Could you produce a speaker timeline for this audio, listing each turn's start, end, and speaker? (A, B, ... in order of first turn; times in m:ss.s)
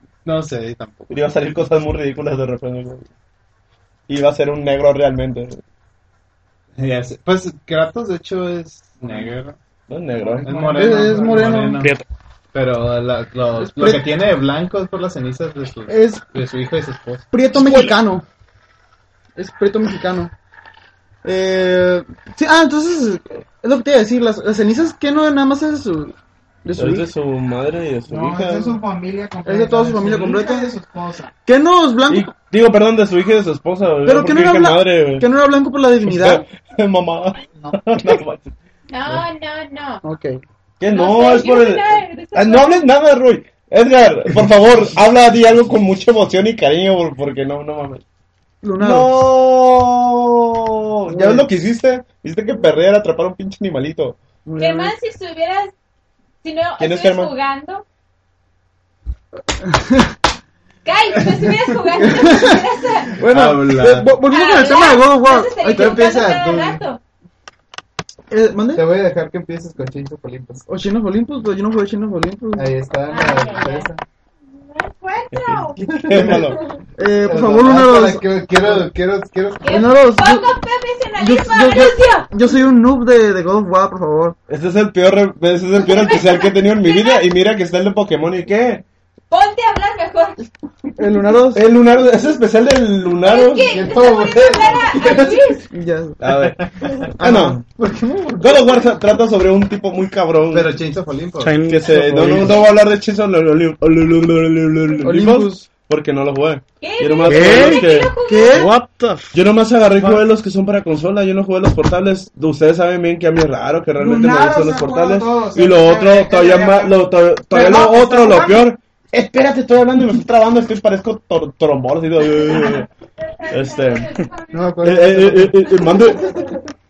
0:00.2-0:01.2 A
0:01.1-0:03.1 B
0:04.1-0:05.6 B
0:06.8-0:09.6 A
0:09.9-0:10.5 B
0:10.3-0:11.2 C
0:10.4-0:11.9 A
0:10.6-0:11.8 D
0:11.5-0:12.0 E
0:12.5-0:17.2 A
0:13.6-0:14.0 D
0:15.9-0:16.2 D
0:17.3-0:18.2 D
0:17.5-0:17.8 E
0:19.4-0:20.3 D
0:21.2-0:27.1 D
0:26.8-0:28.8 B
0:28.1-0:31.3 C
0:29.4-0:30.7 D
0:31.4-0:32.3 D
0:32.1-0:35.3 B
0:34.0-0:36.4 D
0:36.0-0:38.5 B
0:38.9-0:40.0 F
0:40.0-0:40.4 D
0:40.8-0:48.0 B
0:40.8-0:42.8 F
0:48.6-0:49.1 D
0:48.8-0:54.2 B
0:51.1-0:51.5 D
0:54.4-0:54.9 D
0:54.6-0:55.7 F
0:56.4-0:57.8 F
0:56.8-0:57.3 B
0:59.6-1:00.1 D
1:00.8-1:03.2 F
1:02.0-1:02.6 D
1:03.2-1:06.8 D
1:03.2-1:04.2 A
1:04.2-1:07.0 F
1:05.8-1:06.4 A
1:08.3-1:08.9 D
1:08.7-1:10.6 A
1:10.7-1:12.7 D
1:12.5-1:14.0 A
1:13.1-1:13.9 F
1:14.5-1:16.8 F
1:15.3-1:16.6 B
1:16.1-1:16.5 A
1:17.0-1:18.8 D
1:17.1-1:19.9 A
1:19.6-1:22.3 F
1:19.7-1:20.5 D
1:21.1-1:24.4 D
1:24.5-1:28.8 B
1:25.8-1:27.2 F
1:29.3-1:30.4 F
1:31.0-1:31.6 D
1:31.5-1:33.8 B
1:33.2-1:35.7 F
1:33.6-1:35.2 A
1:34.9-1:35.3 B
1:35.7-1:36.2 D
1:36.2-1:37.6 B
1:36.6-1:36.9 A
1:37.2-1:38.4 D
1:38.1-1:38.5 A
1:38.4-1:40.8 B
1:40.5-1:41.6 A
1:41.4-1:42.6 E
1:41.7-1:48.1 B
1:45.0-1:45.7 D
1:46.8-1:48.7 F
1:47.3-1:47.9 E
1:48.3-1:48.7 D
1:48.5-1:49.3 E
1:49.3-2:02.9 B
1:54.0-1:57.0 C
1:57.5-1:58.7 C
2:02.4-2:04.6 F
2:03.5-2:04.1 B
2:04.5-2:05.7 A
2:04.8-2:06.6 B
2:05.7-2:06.6 F